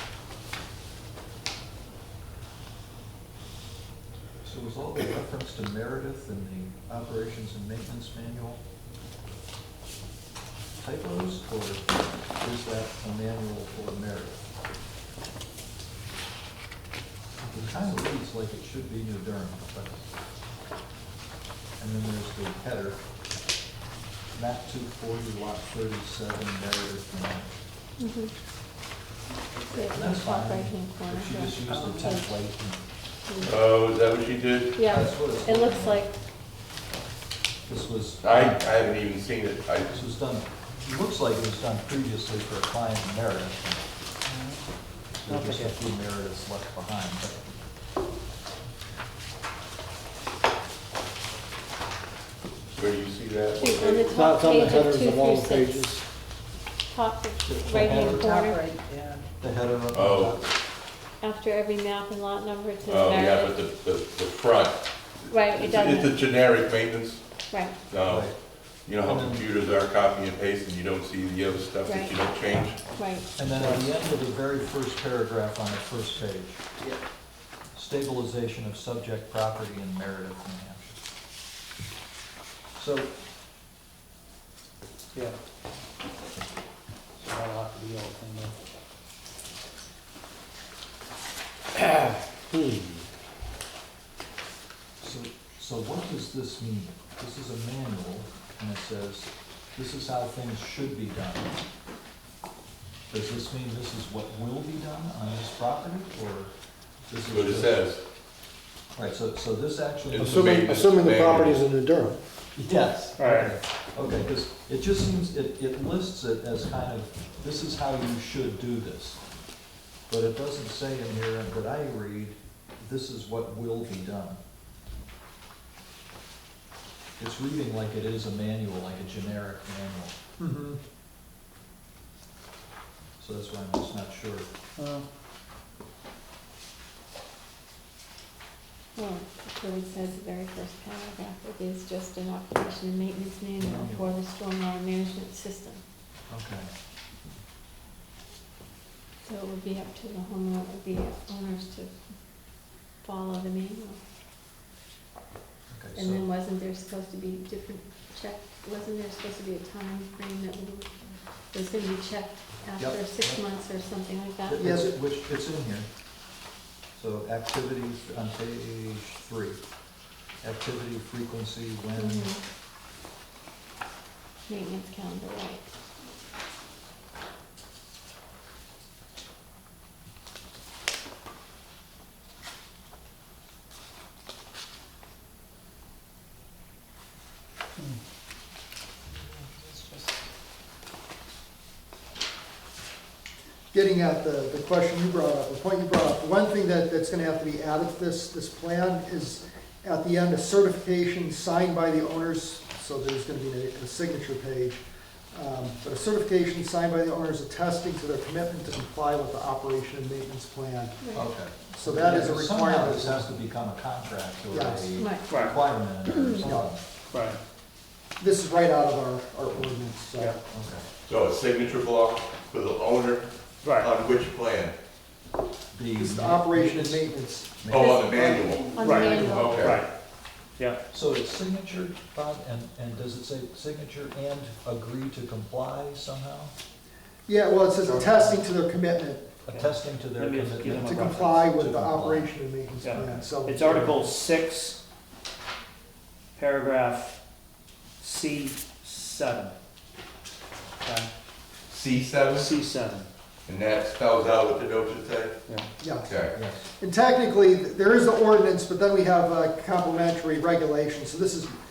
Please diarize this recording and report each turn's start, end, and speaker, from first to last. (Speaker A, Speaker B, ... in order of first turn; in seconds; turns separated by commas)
Speaker A: 4.4-8.6, Speaker A: 10.8-14.4, Speaker A: 17.4-20.0, Speaker A: 21.8-23.0, Speaker A: 24.3-27.5, Speaker B: 28.0-28.3, Speaker B: 29.6-32.3, Speaker A: 29.8-32.8, Speaker B: 33.2-33.6, Speaker C: 33.4-34.8, Speaker B: 34.8-36.1, Speaker A: 34.8-36.0, Speaker A: 37.7-38.8, Speaker C: 38.2-40.0, Speaker A: 39.9-43.8, Speaker A: 45.2-47.6, Speaker D: 45.3-45.8, Speaker C: 52.7-54.1, Speaker B: 53.6-55.9, Speaker E: 54.1-55.8, Speaker B: 56.9-58.6, Speaker A: 57.4-58.5, Speaker E: 58.2-59.2, Speaker A: 59.4-60.5, Speaker C: 59.9-60.4, Speaker B: 61.2-63.5, Speaker C: 62.8-72.8, Speaker B: 65.3-66.1, Speaker B: 67.5-67.8, Speaker A: 68.1-68.3, Speaker A: 69.0-69.4, Speaker B: 71.8-72.2, Speaker B: 72.9-73.3, Speaker A: 73.3-76.8, Speaker D: 73.6-73.8, Speaker A: 77.7-81.0, Speaker A: 82.8-83.1, Speaker D: 87.2-88.5, Speaker A: 95.0-101.5, Speaker A: 103.1-106.5, Speaker A: 107.1-107.8, Speaker C: 107.3-108.0, Speaker A: 108.9-110.8, Speaker C: 110.1-111.6, Speaker F: 110.3-112.2, Speaker A: 112.5-119.2, Speaker D: 113.2-113.5, Speaker A: 120.1-124.4, Speaker A: 127.2-130.1, Speaker F: 130.4-130.8, Speaker A: 133.2-134.5, Speaker D: 134.8-135.1, Speaker B: 138.9-145.8, Speaker A: 143.6-144.1, Speaker A: 146.3-146.7, Speaker B: 149.2-151.9, Speaker B: 153.0-154.0, Speaker A: 155.7-156.3, Speaker B: 155.9-160.9, Speaker B: 161.5-164.7, Speaker A: 162.8-163.4, Speaker A: 164.4-165.9, Speaker F: 164.6-164.9, Speaker A: 166.9-169.6, Speaker A: 170.4-172.3, Speaker B: 171.9-172.4, Speaker B: 174.5-175.7, Speaker F: 193.7-211.0, Speaker B: 211.0-211.3, Speaker A: 211.1-216.8, Speaker F: 211.7-213.4, Speaker F: 214.5-214.9, Speaker B: 214.9-215.5, Speaker D: 215.3-215.6, Speaker B: 216.1-216.5, Speaker F: 216.4-216.7, Speaker D: 217.1-217.4, Speaker F: 218.2-220.3, Speaker A: 220.5-220.9, Speaker C: 221.1-224.7, Speaker D: 223.6-223.9, Speaker A: 225.7-227.1, Speaker F: 225.9-229.5, Speaker A: 227.6-228.1, Speaker C: 227.7-229.8, Speaker B: 227.8-229.7, Speaker D: 228.8-229.9, Speaker A: 230.9-236.5, Speaker F: 237.3-239.4, Speaker D: 237.9-238.2, Speaker A: 239.4-242.3, Speaker D: 239.5-241.5, Speaker F: 240.8-244.2, Speaker D: 242.8-244.8, Speaker D: 246.3-247.2, Speaker D: 248.0-249.5, Speaker D: 250.8-251.1, Speaker C: 251.7-252.6, Speaker D: 252.3-253.1, Speaker C: 253.4-255.4, Speaker F: 255.8-256.1, Speaker C: 256.0-256.4, Speaker A: 256.3-256.6, Speaker F: 256.8-261.6